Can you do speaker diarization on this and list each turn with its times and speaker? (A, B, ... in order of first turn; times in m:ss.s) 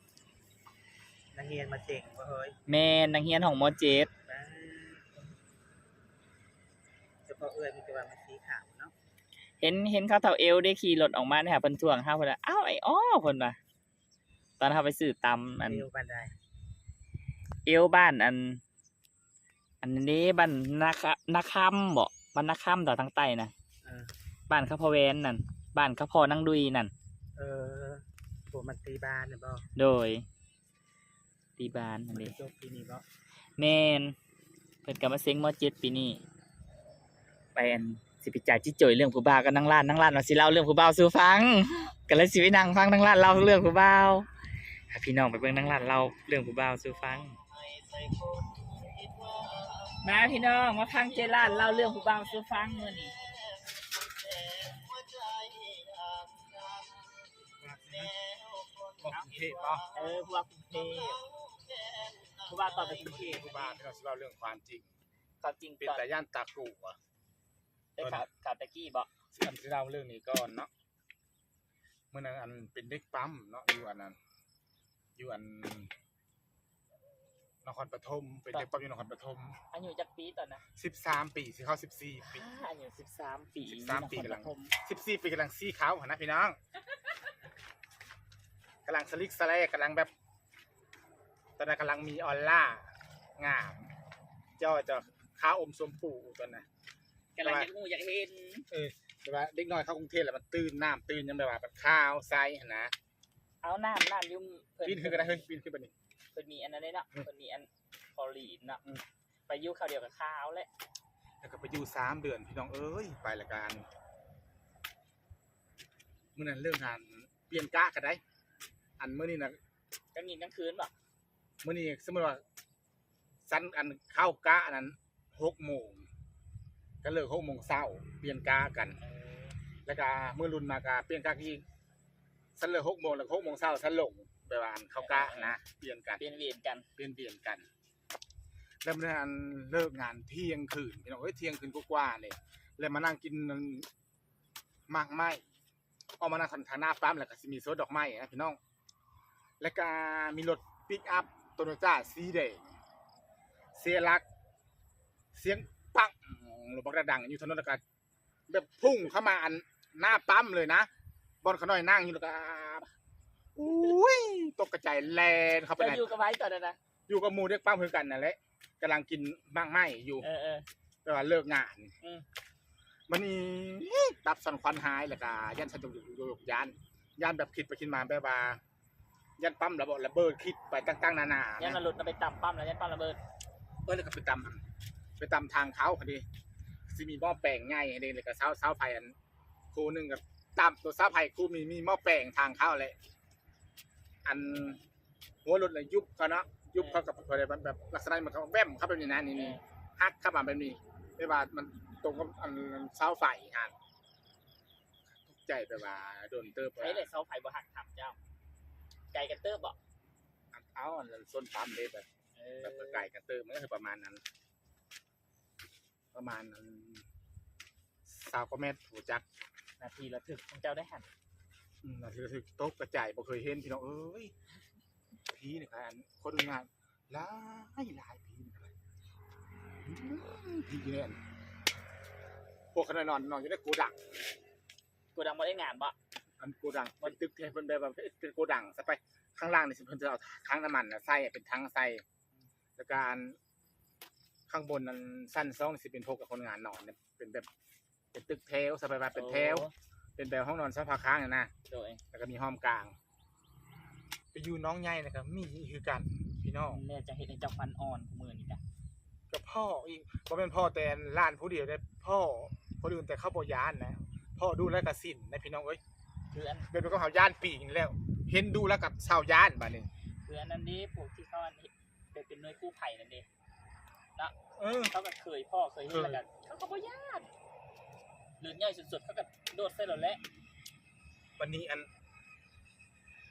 0:01.3-0:02.6 A
0:02.7-0:04.1 B
0:04.3-0:05.2 A
0:07.3-0:08.9 A
0:09.6-0:13.6 B
0:14.6-0:15.8 B
0:15.6-0:16.3 A
0:17.7-0:18.6 B
0:19.8-0:23.5 B
0:23.8-0:24.1 A
0:24.5-0:26.9 B
0:27.4-0:29.6 A
0:29.8-0:30.2 B
0:31.6-0:32.4 B
0:32.1-0:33.0 A
0:33.6-0:34.1 B
0:34.8-0:36.2 B
0:37.6-0:44.3 B
0:44.9-0:47.4 B
0:50.0-0:53.2 B
0:57.6-0:58.1 C
0:59.0-0:59.8 C
0:59.9-1:01.3 B
1:02.4-1:03.8 B
1:02.8-1:04.9 C
1:05.4-1:06.1 B
1:05.8-1:07.0 C
1:08.0-1:09.1 B
1:08.0-1:08.3 C
1:09.3-1:10.7 C
1:12.1-1:14.2 C
1:15.2-1:15.9 C
1:17.6-1:19.6 C
1:19.7-1:20.6 B
1:20.8-1:22.5 C
1:22.2-1:24.7 B
1:23.6-1:26.6 C
1:28.9-1:30.1 C
1:31.6-1:33.9 C
1:34.6-1:36.7 C
1:37.4-1:38.7 B
1:37.4-1:37.7 C
1:38.7-1:42.9 C
1:43.6-1:45.4 B
1:44.8-1:45.9 C
1:46.3-1:48.8 B
1:49.5-1:50.7 B
1:51.4-1:53.8 C
1:56.4-1:58.2 C
1:59.0-1:59.6 C
2:00.1-2:00.9 B
2:01.6-2:02.4 C
2:03.5-2:06.1 C
2:07.0-2:09.0 C
2:09.0-2:09.6 B
2:09.9-2:11.6 C
2:12.6-2:16.2 C
2:15.0-2:15.6 B
2:16.2-2:16.9 B
2:17.0-2:17.6 C
2:18.8-2:23.9 C
2:24.9-2:25.4 C
2:26.2-2:28.6 C
2:29.6-2:32.6 C
2:33.8-2:34.2 C
2:35.3-2:37.8 C
2:38.5-2:40.9 C
2:41.4-2:42.9 C
2:43.6-2:46.1 C
2:45.8-2:46.8 B
2:47.1-2:50.3 C
2:50.2-2:50.6 B
2:51.0-2:51.9 C
2:53.1-2:58.6 C
2:59.4-3:01.8 C
3:01.6-3:03.2 B
3:03.9-3:04.6 C
3:05.2-3:06.2 C
3:06.9-3:09.2 C
3:09.7-3:13.0 C
3:14.2-3:14.8 C
3:15.4-3:23.7 C
3:16.8-3:17.0 B
3:19.3-3:19.6 B
3:25.2-3:27.1 C
3:26.8-3:28.2 B
3:29.1-3:29.8 B
3:30.5-3:32.1 C
3:32.4-3:33.1 B
3:32.6-3:34.2 C
3:36.1-3:37.0 C
3:38.1-3:39.2 C
3:39.8-3:41.1 B
3:41.8-3:44.3 C
3:45.3-3:48.7 C
3:49.8-3:51.2 C
3:52.7-3:54.0 C
3:55.2-3:56.0 B
3:56.4-4:02.0 C
4:02.8-4:03.4 C
4:04.5-4:07.5 C
4:08.1-4:11.5 C
4:09.1-4:09.7 B
4:11.7-4:12.0 B
4:12.1-4:13.0 C
4:14.3-4:16.8 C
4:16.7-4:18.6 B
4:19.3-4:25.8 C
4:26.3-4:26.7 B
4:26.7-4:29.9 C
4:30.2-4:33.3 B
4:34.6-4:35.0 C
4:34.9-4:37.3 B
4:35.9-4:36.2 C
4:38.4-4:40.2 B
4:41.4-4:41.9 C